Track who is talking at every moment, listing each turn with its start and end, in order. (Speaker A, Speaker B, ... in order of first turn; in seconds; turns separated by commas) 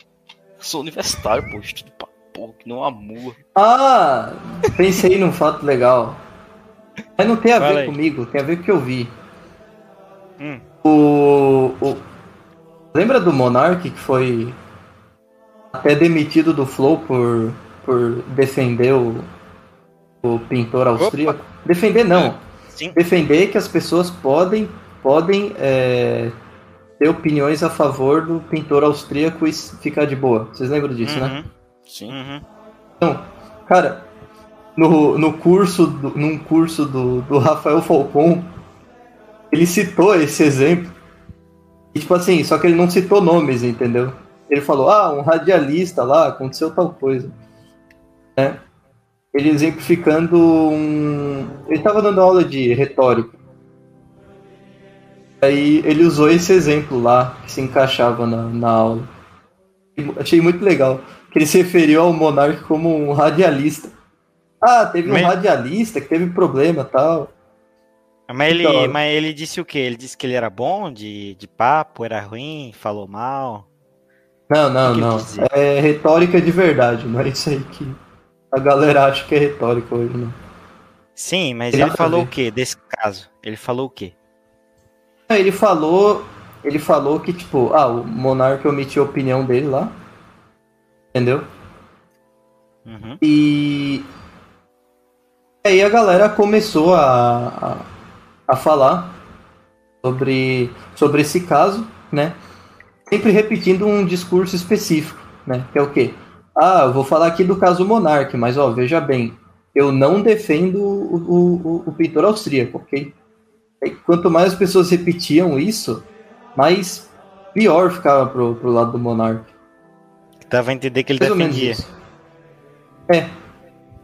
Speaker A: 0.6-3.4, Speaker B: 3.5-6.2, Speaker B: 7.2-9.1, Speaker C: 7.5-8.0, Speaker C: 10.4-10.6, Speaker B: 10.8-12.0, Speaker B: 12.9-14.6, Speaker B: 15.7-19.3, Speaker B: 20.2-22.4, Speaker C: 21.0-21.4, Speaker C: 22.1-23.0, Speaker B: 22.9-26.3, Speaker B: 27.0-31.4, Speaker C: 31.0-31.5, Speaker A: 31.9-32.1, Speaker C: 32.1-32.4, Speaker B: 33.0-34.1, Speaker B: 34.8-38.5, Speaker B: 39.5-41.0, Speaker B: 41.9-47.3, Speaker B: 49.3-53.3, Speaker B: 55.4-59.1, Speaker B: 60.0-63.9, Speaker B: 64.6-67.3, Speaker C: 65.0-65.3, Speaker C: 68.3-73.7, Speaker B: 68.5-69.0, Speaker B: 74.5-78.0, Speaker C: 74.8-75.5, Speaker B: 78.5-80.4, Speaker C: 81.2-84.2, Speaker B: 81.7-82.3, Speaker B: 85.3-90.0, Speaker B: 91.1-91.5, Speaker C: 92.8-93.2, Speaker B: 93.2-94.0, Speaker B: 95.6-97.9, Speaker B: 98.5-99.2, Speaker B: 100.0-102.4, Speaker B: 103.1-113.2, Speaker B: 113.8-119.5, Speaker C: 120.5-121.8, Speaker B: 121.2-121.9, Speaker B: 123.1-123.3